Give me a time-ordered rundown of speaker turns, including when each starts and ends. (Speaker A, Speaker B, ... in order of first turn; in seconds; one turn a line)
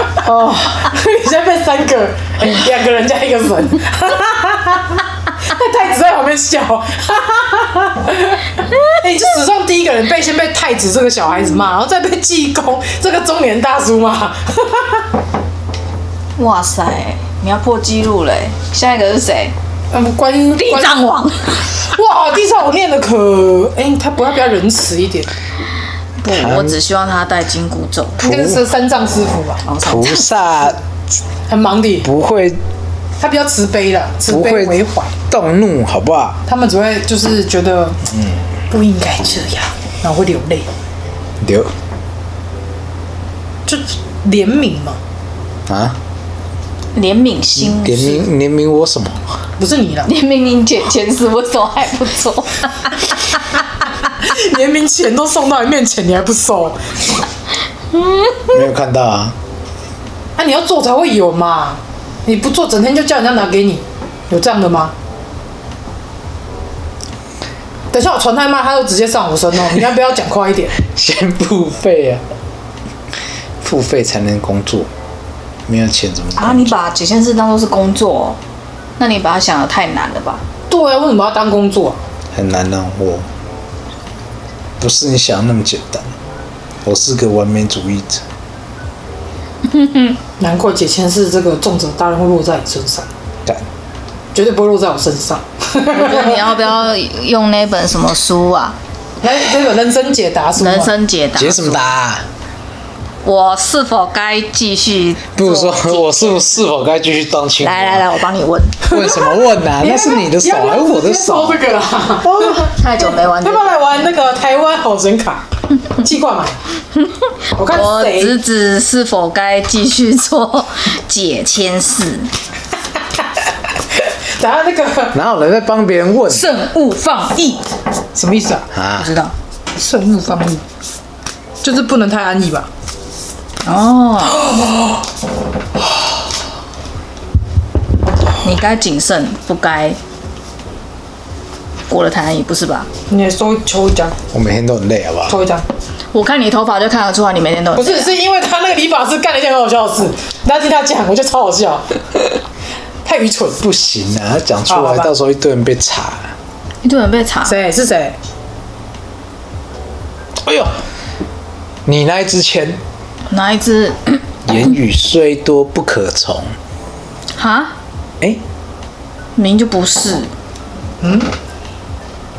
Speaker A: 0.2-15.0
Speaker B: 16.4-19.5
Speaker A: 19.9-20.9
Speaker B: 20.6-21.8
Speaker A: 21.8-25.3
Speaker B: 26.2-28.2
Speaker C: 26.2-26.8
Speaker C: 28.2-28.6
Speaker A: 28.2-29.6
Speaker B: 29.6-30.3
Speaker C: 29.8-30.8
Speaker A: 31.5-32.1
Speaker C: 32.0-32.6
Speaker A: 33.2-35.1
Speaker C: 34.2-36.4
Speaker A: 36.5-38.0
Speaker A: 38.7-40.7
Speaker C: 41.4-41.7
Speaker A: 43.6-45.0
Speaker C: 45.7-46.0
Speaker B: 46.9-48.2
Speaker C: 47.5-49.2
Speaker A: 49.6-50.1
Speaker B: 50.0-53.0
Speaker A: 54.2-56.9
Speaker B: 57.9-58.5
Speaker C: 58.5-59.4
Speaker A: 60.4-64.9
Speaker A: 67.9-70.7
Speaker C: 70.8-72.2
Speaker C: 73.6-74.9
Speaker C: 75.7-76.8
Speaker B: 76.3-78.4
Speaker B: 79.0-80.4
Speaker A: 80.7-82.0
Speaker C: 82.3-83.3
Speaker C: 84.8-86.1
Speaker C: 86.8-88.2
Speaker B: 89.7-90.2
Speaker A: 90.4-93.1
Speaker A: 94.3-96.6
Speaker B: 95.9-98.8
Speaker A: 99.2-100.9
Speaker B: 100.6-101.9
Speaker C: 101.4-102.2
Speaker B: 103.2-106.3
Speaker C: 105.3-108.1
Speaker B: 107.6-108.9
Speaker C: 108.8-111.6
Speaker A: 108.9-115.5
Speaker B: 112.6-114.0
Speaker A: 116.0-116.6
Speaker B: 117.0-122.3
Speaker A: 117.5-118.3
Speaker A: 124.3-125.2
Speaker C: 125.1-126.5
Speaker B: 126.3-127.6
Speaker A: 128.1-128.7
Speaker C: 128.7-129.1
Speaker B: 129.0-129.3
Speaker A: 129.7-130.6
Speaker A: 131.6-132.7
Speaker B: 133.6-134.6
Speaker A: 134.4-135.0
Speaker B: 138.4-140.0
Speaker B: 141.9-142.9
Speaker A: 143.1-144.2
Speaker C: 144.3-145.3
Speaker A: 145.3-145.6
Speaker B: 146.1-148.1
Speaker A: 147.7-151.9
Speaker A: 153.0-153.6
Speaker C: 153.6-156.3
Speaker A: 154.7-155.1
Speaker B: 156.8-157.6
Speaker A: 157.4-158.2
Speaker C: 160.4-160.7
Speaker C: 161.8-162.8
Speaker B: 163.3-164.2
Speaker C: 164.4-166.5
Speaker B: 167.3-167.8
Speaker B: 169.3-170.3
Speaker A: 171.0-171.3